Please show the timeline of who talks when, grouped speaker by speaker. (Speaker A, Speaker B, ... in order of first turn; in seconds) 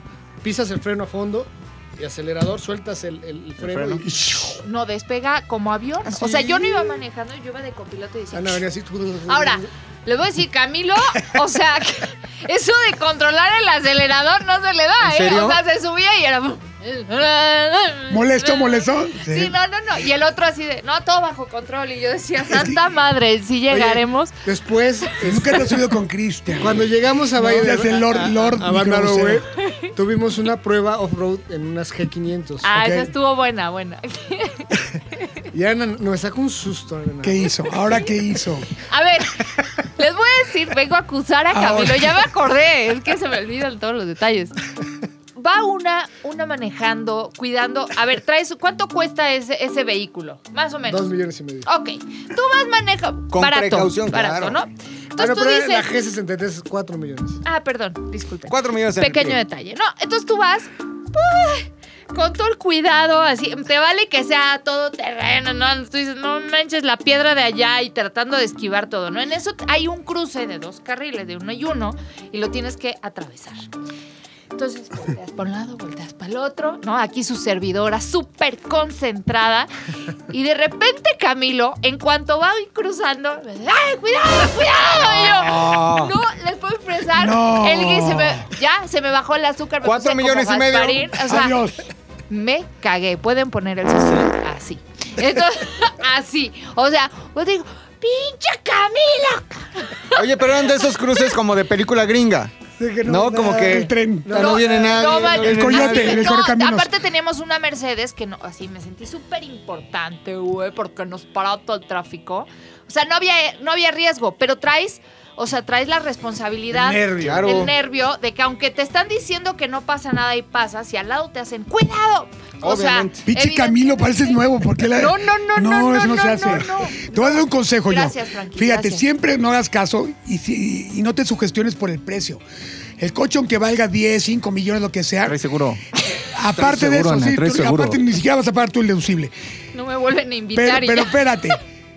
Speaker A: 0.4-4.1, 8.3-9.7, 23.7-25.7, 26.6-32.7, 35.5-37.7, 50.9-51.7, 55.2-57.4, 102.8-105.4, 116.8-117.7
Speaker B: 3.6-4.1, 6.2-6.5, 15.0-15.6, 53.3-54.6, 58.5-59.4, 84.8-86.1, 89.8-91.2, 100.2-102.5, 103.0-106.3, 117.2-117.8, 122.6-123.3, 135.2-135.8, 136.5-138.0
Speaker C: 4.0-4.6, 18.1-19.6, 22.5-22.8, 25.2-29.4, 32.7-33.1, 37.2-38.7, 41.5-42.2, 87.1-88.5, 91.2-91.9, 103.1-104.3, 105.4-106.9, 116.7-117.5, 123.3-132.4, 133.0-135.4, 136.1-139.3, 140.5-141.6
Speaker D: 4.6-8.6, 9.3-24.4, 29.6-29.9, 32.6-34.7, 38.9-44.6, 45.4-51.1, 51.7-55.9, 57.4-73.7, 74.5-79.7, 80.3-91.6, 92.3-100.2, 104.3-129.1, 139.7-141.5